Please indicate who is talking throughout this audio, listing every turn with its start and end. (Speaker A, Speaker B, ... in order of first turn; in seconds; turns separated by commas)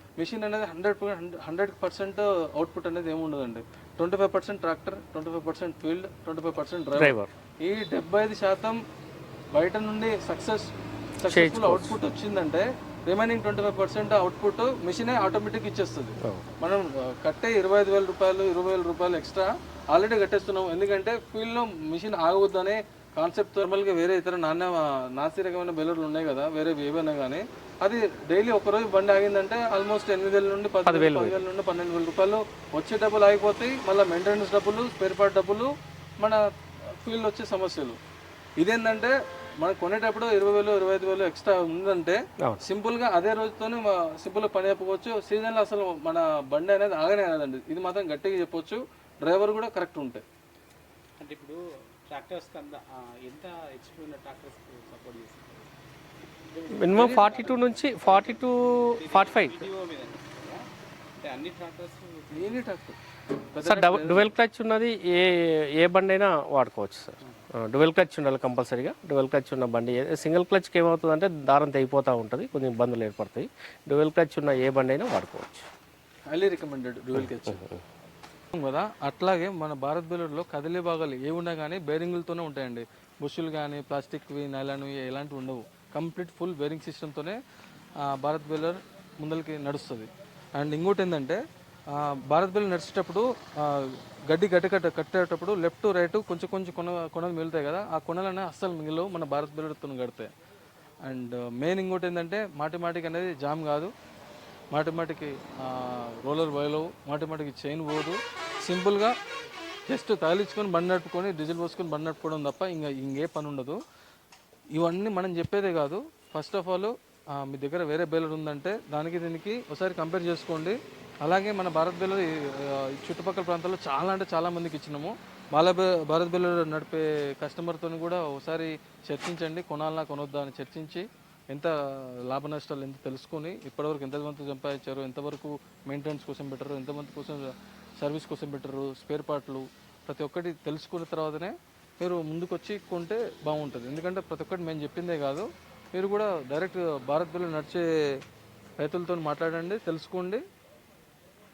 Speaker A: 0.2-8.8, Speaker B: 7.0-7.3, Speaker A: 9.5-36.4, Speaker B: 11.3-12.0, Speaker B: 16.2-16.5, Speaker B: 30.9-31.4, Speaker A: 37.0-38.0, Speaker A: 38.6-50.2, Speaker C: 51.2-55.7, Speaker C: 56.5-60.7, Speaker B: 56.8-59.6, Speaker A: 56.9-57.3, Speaker C: 61.2-62.6, Speaker A: 62.3-63.0, Speaker A: 63.5-64.3, Speaker B: 63.6-75.7, Speaker A: 76.3-77.7, Speaker B: 77.2-77.8, Speaker A: 78.5-87.4, Speaker A: 88.0-91.4, Speaker A: 91.9-100.3, Speaker A: 101.0-103.9, Speaker A: 104.7-109.2, Speaker A: 109.9-113.8, Speaker A: 114.7-131.8, Speaker A: 132.3-148.2, Speaker A: 148.8-150.4